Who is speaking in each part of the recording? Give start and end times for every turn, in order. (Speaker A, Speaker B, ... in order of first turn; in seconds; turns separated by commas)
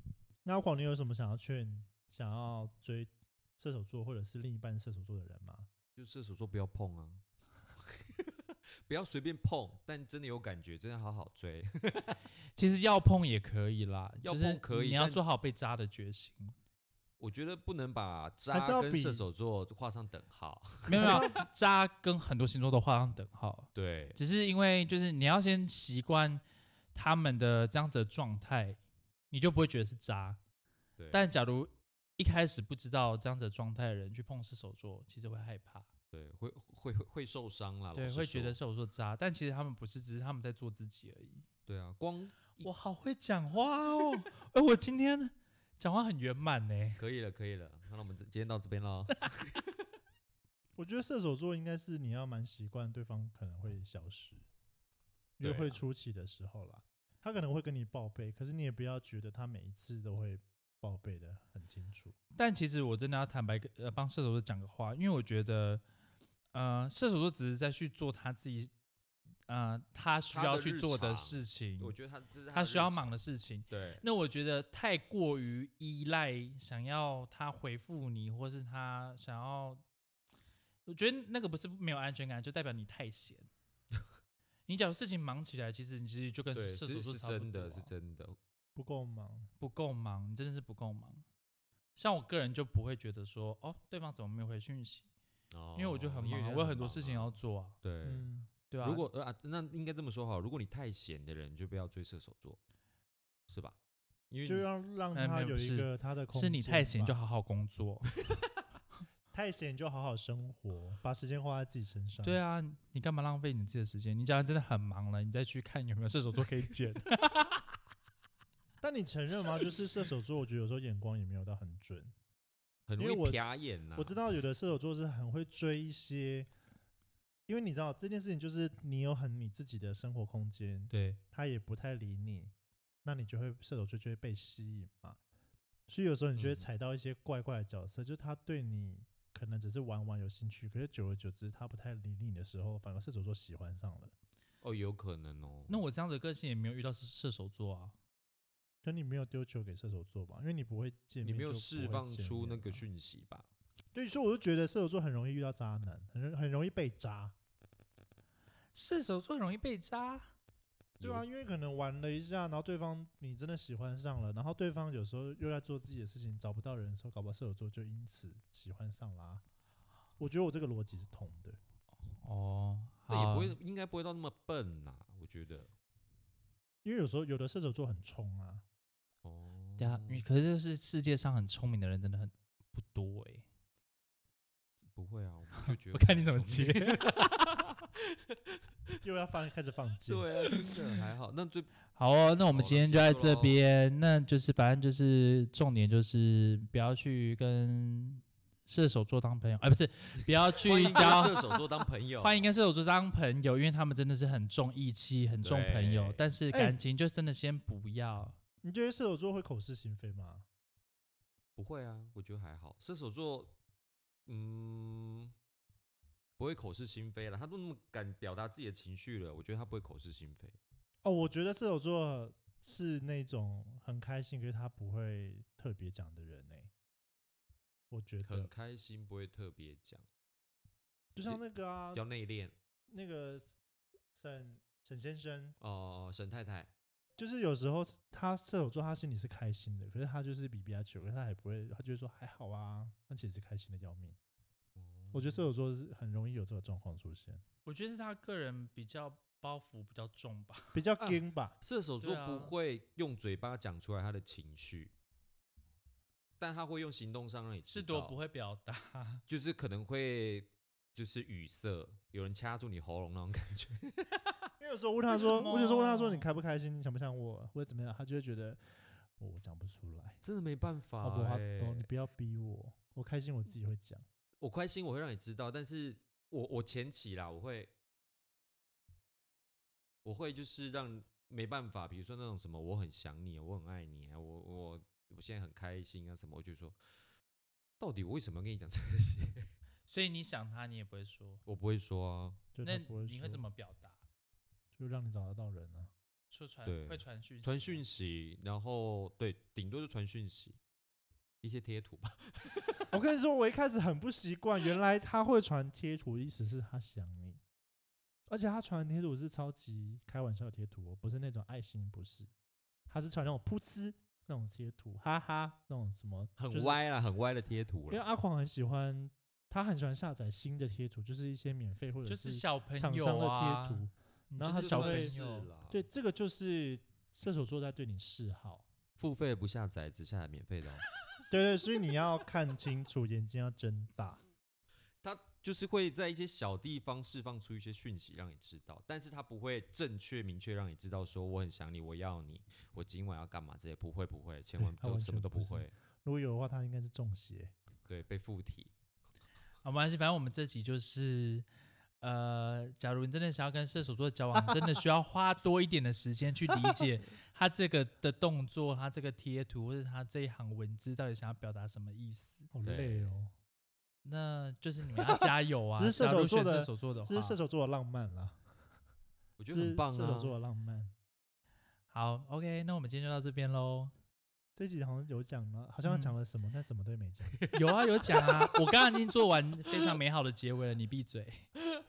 Speaker A: 0.5-5.7, Speaker B: 6.0-7.2, Speaker B: 7.8-12.2, Speaker C: 12.6-16.6, Speaker B: 14.2-15.2, Speaker B: 17.2-21.3, Speaker A: 18.5-19.2, Speaker C: 20.9-28.8, Speaker A: 20.9-21.4, Speaker B: 23.8-24.2, Speaker C: 29.3-30.4, Speaker B: 31.0-31.3, Speaker C: 31.1-35.9, Speaker B: 36.1-38.6, Speaker C: 38.0-41.5, Speaker B: 41.7-42.7, Speaker C: 42.6-47.0, Speaker B: 47.0-49.6, Speaker A: 50.8-54.4, Speaker A: 55.4-62.2, Speaker B: 55.4-55.8, Speaker C: 62.4-65.8, Speaker C: 66.5-68.7, Speaker C: 69.5-72.0, Speaker B: 70.3-73.2, Speaker C: 72.5-79.8, Speaker B: 73.7-74.0, Speaker C: 80.9-83.5, Speaker C: 84.7-87.9, Speaker B: 86.5-88.4, Speaker A: 88.8-89.5, Speaker C: 89.6-91.2, Speaker C: 92.0-95.1, Speaker B: 95.5-98.3, Speaker C: 95.8-97.8, Speaker A: 98.0-98.5, Speaker C: 98.7-99.1, Speaker B: 98.8-102.6, Speaker B: 103.5-103.8, Speaker B: 104.3-104.7, Speaker A: 104.4-107.2, Speaker C: 105.1-108.2, Speaker A: 109.3-112.4, Speaker C: 112.2-117.6, Speaker A: 118.8-122.1, Speaker B: 122.9-124.2, Speaker A: 123.0-123.4, Speaker A: 124.0-126.5, Speaker A: 127.5-132.5, Speaker C: 130.9-131.2, Speaker A: 133.0-135.2, Speaker A: 135.9-144.1, Speaker B: 136.4-136.7, Speaker B: 144.6-145.8, Speaker C: 145.7-147.9, Speaker A: 148.8-152.8, Speaker B: 151.2-153.5, Speaker A: 153.9-157.3, Speaker C: 158.7-160.3, Speaker B: 161.0-161.2, Speaker A: 161.0-169.4, Speaker A: 170.2-171.6, Speaker C: 172.2-173.6, Speaker B: 173.1-175.7, Speaker A: 176.8-178.7, Speaker B: 179.2-180.2, Speaker C: 179.8-183.5, Speaker B: 184.9-188.4, Speaker C: 185.9-187.2, Speaker A: 189.0-190.3, Speaker B: 190.1-191.7, Speaker C: 191.9-201.4, Speaker B: 192.5-193.6, Speaker B: 200.5-202.5, Speaker C: 202.2-208.4, Speaker B: 205.4-206.2, Speaker A: 206.5-206.8, Speaker A: 208.6-210.5, Speaker B: 211.6-213.6, Speaker B: 214.3-215.3, Speaker B: 216.4-220.6, Speaker A: 221.0-226.7, Speaker A: 227.9-228.5, Speaker B: 228.2-230.1, Speaker A: 231.1-232.0, Speaker B: 231.9-232.5, Speaker A: 232.9-233.6, Speaker A: 234.1-235.6, Speaker B: 235.6-236.7, Speaker A: 237.2-244.2, Speaker B: 244.8-245.5, Speaker A: 245.1-247.4, Speaker C: 247.7-250.8, Speaker A: 250.7-251.6, Speaker B: 251.0-254.9, Speaker C: 252.0-252.6, Speaker B: 256.4-258.2, Speaker C: 257.7-259.2, Speaker B: 259.3-264.1, Speaker A: 264.6-270.2, Speaker C: 265.1-266.3, Speaker B: 270.2-271.9, Speaker A: 271.0-274.1, Speaker B: 274.4-277.7, Speaker B: 280.0-286.8, Speaker B: 287.8-289.5, Speaker C: 289.9-291.4, Speaker B: 291.5-292.4, Speaker A: 292.5-293.4, Speaker C: 292.6-294.0, Speaker A: 294.7-295.9, Speaker C: 296.3-297.8, Speaker B: 296.7-300.6, Speaker B: 301.4-302.9, Speaker A: 302.9-307.4, Speaker A: 308.3-312.3, Speaker A: 312.9-316.8, Speaker B: 316.4-318.0, Speaker A: 317.9-325.1, Speaker C: 322.1-325.5, Speaker B: 324.5-325.8, Speaker A: 325.7-328.7, Speaker B: 329.0-330.9, Speaker A: 331.3-334.2, Speaker B: 335.0-345.7, Speaker A: 344.6-347.5, Speaker B: 347.9-348.7, Speaker C: 349.6-351.5, Speaker C: 352.0-362.5, Speaker A: 362.5-363.3, Speaker B: 362.6-363.2, Speaker C: 364.1-367.4, Speaker A: 365.8-368.4, Speaker B: 369.4-370.4, Speaker A: 369.5-370.9, Speaker C: 371.9-373.9, Speaker A: 374.6-377.4, Speaker C: 375.9-376.1, Speaker B: 377.3-378.5, Speaker C: 377.5-381.5